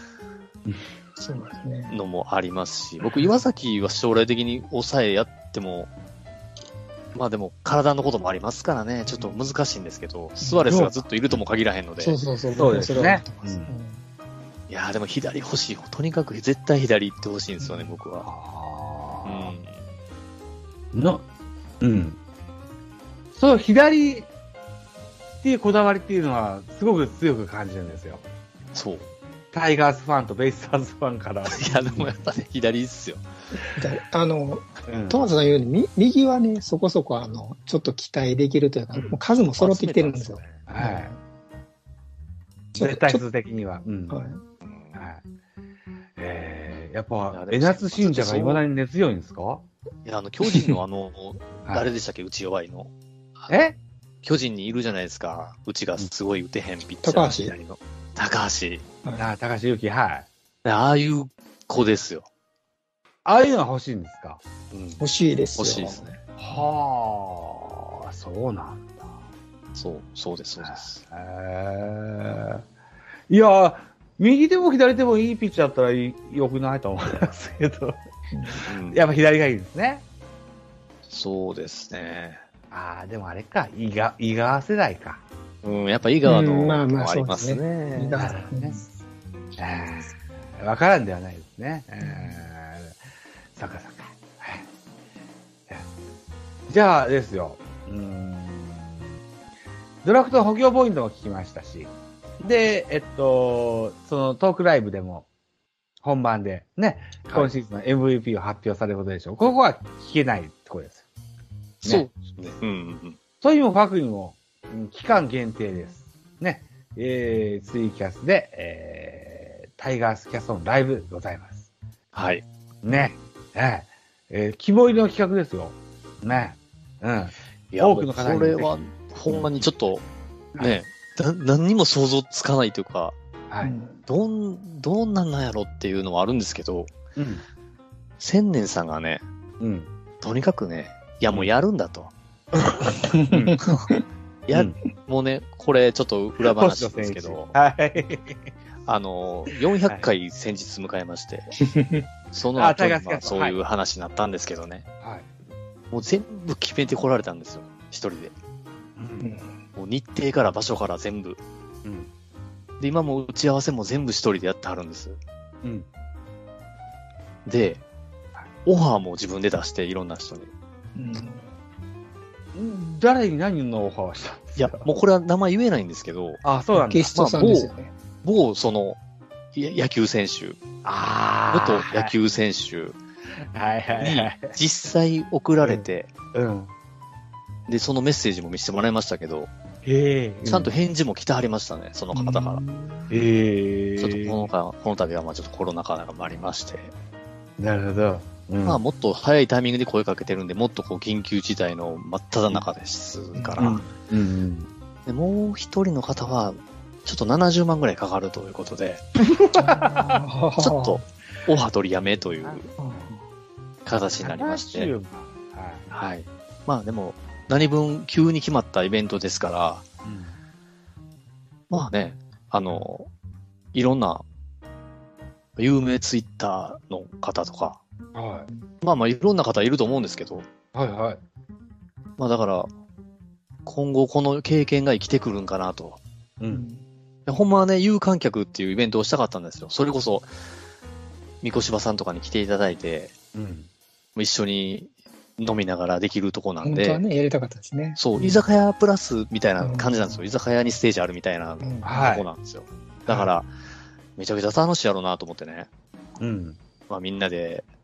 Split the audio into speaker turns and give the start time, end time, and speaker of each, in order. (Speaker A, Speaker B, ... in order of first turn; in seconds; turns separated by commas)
Speaker A: 1.2-1.9, Speaker B: 1.9-5.9, Speaker B: 7.2-12.2, Speaker A: 9.1-9.3, Speaker A: 10.4-10.7, Speaker C: 10.7-11.4, Speaker A: 12.0-14.0, Speaker C: 12.6-13.7, Speaker B: 14.7-18.3, Speaker A: 17.6-17.9, Speaker C: 18.2-19.5, Speaker B: 19.2-19.8, Speaker C: 20.9-21.2, Speaker C: 21.8-22.2, Speaker C: 23.3-24.3, Speaker C: 25.4-28.2, Speaker B: 28.7-29.1, Speaker C: 29.5-32.1, Speaker B: 31.5-33.2, Speaker A: 33.7-41.2, Speaker C: 34.9-35.2, Speaker C: 38.9-39.2, Speaker B: 39.6-40.6, Speaker C: 40.7-41.1, Speaker A: 42.8-43.2, Speaker C: 42.8-44.2, Speaker A: 44.1-44.4, Speaker B: 44.6-45.0, Speaker C: 45.0-45.2, Speaker C: 46.2-49.7, Speaker B: 47.3-48.6, Speaker B: 50.0-53.5, Speaker C: 53.5-53.8, Speaker B: 54.2-58.9, Speaker A: 57.0-57.6, Speaker A: 59.0-59.3, Speaker C: 59.2-60.3, Speaker B: 60.6-62.3, Speaker C: 63.2-64.4, Speaker B: 64.7-65.0, Speaker A: 65.0-66.1, Speaker B: 65.6-66.2, Speaker C: 66.4-69.1, Speaker B: 69.8-71.0, Speaker C: 70.6-72.6, Speaker C: 73.3-80.0, Speaker A: 78.3-78.6, Speaker B: 78.7-79.0, Speaker B: 81.1-82.4, Speaker C: 82.7-85.2, Speaker B: 85.6-88.3, Speaker A: 86.2-88.9, Speaker C: 88.2-88.8, Speaker C: 89.6-93.0, Speaker A: 92.0-92.5, Speaker C: 93.5-94.7, Speaker C: 96.7-99.1, Speaker C: 100.0-105.3, Speaker C: 106.0-111.0, Speaker B: 111.8-113.2, Speaker C: 111.8-112.1, Speaker C: 113.4-121.7, Speaker B: 122.1-122.5, Speaker C: 122.8-128.8, Speaker B: 127.7-130.1, Speaker C: 129.3-129.7, Speaker B: 130.6-133.2, Speaker A: 133.6-134.0, Speaker B: 134.1-136.9, Speaker C: 137.2-137.4, Speaker B: 138.2-139.2, Speaker C: 139.6-139.9, Speaker B: 140.2-142.1, Speaker A: 143.0-144.0, Speaker C: 143.3-143.6, Speaker B: 144.5-147.6, Speaker C: 146.4-148.5, Speaker B: 148.9-151.6, Speaker A: 151.6-152.1, Speaker B: 152.3-154.8, Speaker C: 152.6-153.6, Speaker C: 155.0-155.3, Speaker B: 155.9-158.3, Speaker C: 159.0-159.3, Speaker A: 159.2-159.6, Speaker B: 159.8-161.4, Speaker B: 162.8-165.2, Speaker B: 167.5-167.8, Speaker B: 168.7-170.5, Speaker A: 171.0-171.5, Speaker C: 172.5-174.9, Speaker B: 174.6-176.4, Speaker C: 176.4-177.1, Speaker A: 176.7-177.9, Speaker B: 177.1-179.0, Speaker B: 179.5-180.6, Speaker C: 180.8-182.1, Speaker B: 181.5-183.0, Speaker C: 183.5-184.5, Speaker B: 184.0-186.1, Speaker C: 185.6-186.7, Speaker B: 187.7-189.5, Speaker C: 189.8-190.7, Speaker B: 190.4-192.6, Speaker A: 192.1-193.1, Speaker C: 193.1-194.5, Speaker B: 194.0-196.9, Speaker C: 197.6-198.8, Speaker B: 198.7-203.8, Speaker A: 203.3-203.7, Speaker C: 203.6-204.7, Speaker B: 205.1-209.0, Speaker C: 209.2-210.2, Speaker A: 209.6-211.0, Speaker B: 210.6-212.7, Speaker C: 212.2-213.1, Speaker A: 212.8-213.2, Speaker B: 213.9-214.9, Speaker C: 214.2-215.9, Speaker B: 215.9-219.8, Speaker C: 220.0-220.4, Speaker B: 221.7-223.1, Speaker B: 223.7-224.2, Speaker B: 225.6-227.8, Speaker C: 228.2-228.5, Speaker B: 228.8-230.5, Speaker C: 230.7-231.2, Speaker B: 232.2-232.7, Speaker B: 233.7-236.0, Speaker C: 236.4-236.7, Speaker A: 236.5-236.8, Speaker B: 237.3-240.3, Speaker B: 241.4-243.1, Speaker C: 243.3-243.7, Speaker B: 244.2-247.0, Speaker A: 246.6-248.4, Speaker B: 248.0-253.5, Speaker A: 249.6-250.2, Speaker A: 251.6-251.9, Speaker C: 251.8-252.3, Speaker B: 254.2-255.7, Speaker C: 256.2-256.6, Speaker B: 256.9-257.7